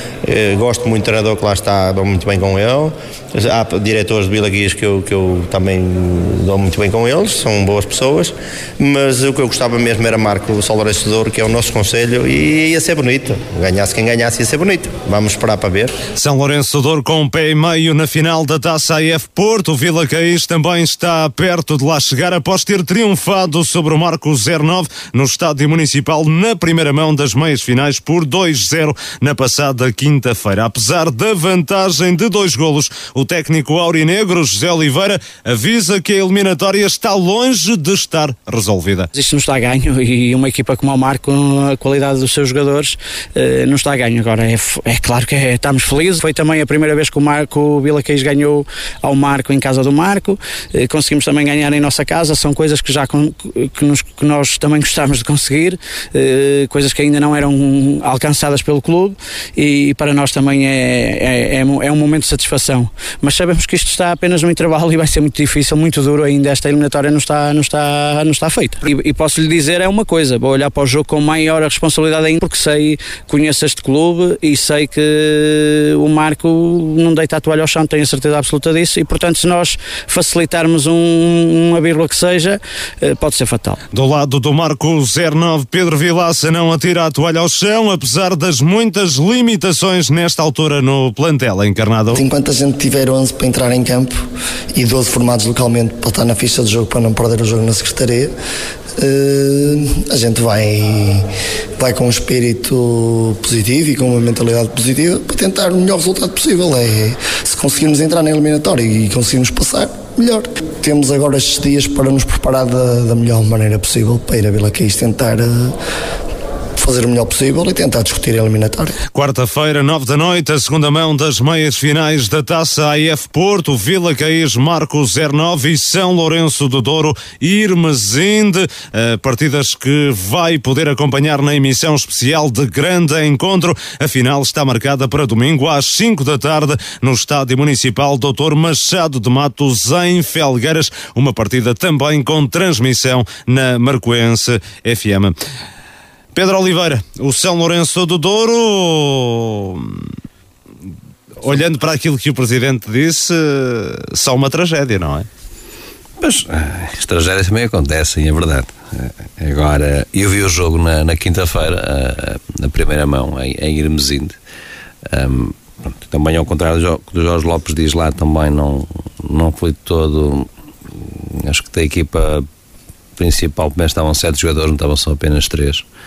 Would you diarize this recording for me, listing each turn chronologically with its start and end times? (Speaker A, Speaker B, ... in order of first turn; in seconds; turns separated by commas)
Speaker A: 0.2-15.9, Speaker B: 16.1-39.1, Speaker C: 39.1-83.8, Speaker B: 83.9-92.2, Speaker D: 92.1-98.3, Speaker D: 99.0-101.2, Speaker D: 101.8-115.7, Speaker D: 116.8-119.0, Speaker B: 119.1-145.3, Speaker B: 146.3-150.1, Speaker B: 151.4-155.3, Speaker E: 156.2-164.3, Speaker E: 165.1-172.4, Speaker E: 173.2-175.8